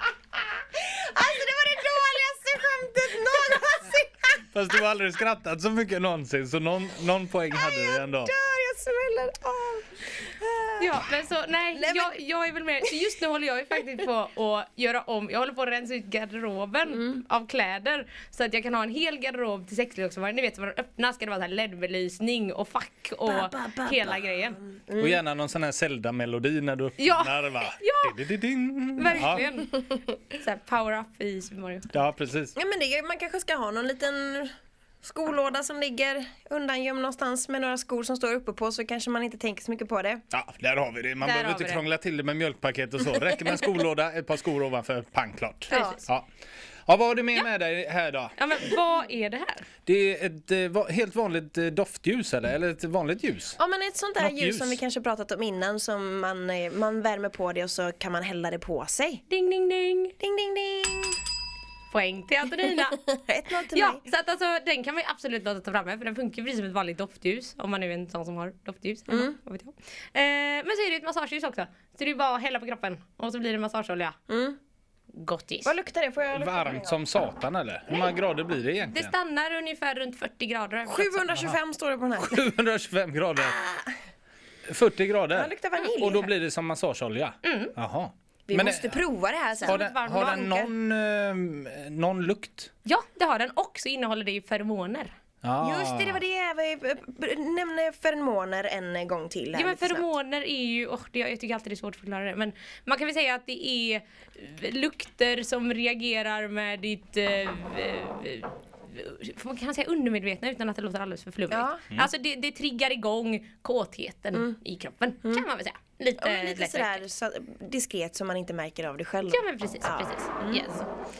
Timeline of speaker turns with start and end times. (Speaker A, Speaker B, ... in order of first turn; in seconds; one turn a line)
Speaker A: 0.7-4.4
Speaker B: 4.5-8.3
Speaker A: 7.5-11.0
Speaker C: 10.8-24.6
Speaker A: 11.7-12.2
Speaker A: 16.9-17.2
Speaker A: 23.3-25.2
Speaker B: 25.0-29.4
Speaker C: 27.0-28.2
Speaker C: 28.9-31.9
Speaker B: 31.9-32.5
Speaker A: 32.5-40.2
Speaker B: 40.3-46.2
Speaker C: 41.2-41.8
Speaker C: 45.7-46.0
Speaker A: 45.7-46.0
Speaker B: 46.9-48.3
Speaker C: 48.4-49.7
Speaker B: 49.9-53.6
Speaker A: 53.6-59.2
Speaker B: 54.2-54.8
Speaker C: 59.3-60.1
Speaker A: 60.2-61.2
Speaker C: 61.9-63.0
Speaker A: 62.6-64.0
Speaker C: 63.7-74.2
Speaker A: 69.1-69.3
Speaker A: 74.3-74.6
Speaker C: 75.1-75.7
Speaker A: 75.6-77.0
Speaker B: 76.3-79.1
Speaker C: 78.9-81.3
Speaker A: 80.8-82.4
Speaker B: 82.2-83.6
Speaker A: 83.4-83.9
Speaker B: 84.7-89.0
Speaker A: 85.3-86.3
Speaker C: 87.4-87.7
Speaker A: 88.5-90.7
Speaker C: 89.6-90.5
Speaker B: 89.7-92.7
Speaker C: 92.8-95.1
Speaker B: 95.4-96.2
Speaker A: 95.6-100.1
Speaker C: 99.5-117.0
Speaker A: 111.5-111.8
Speaker A: 116.2-120.7
Speaker C: 119.3-120.9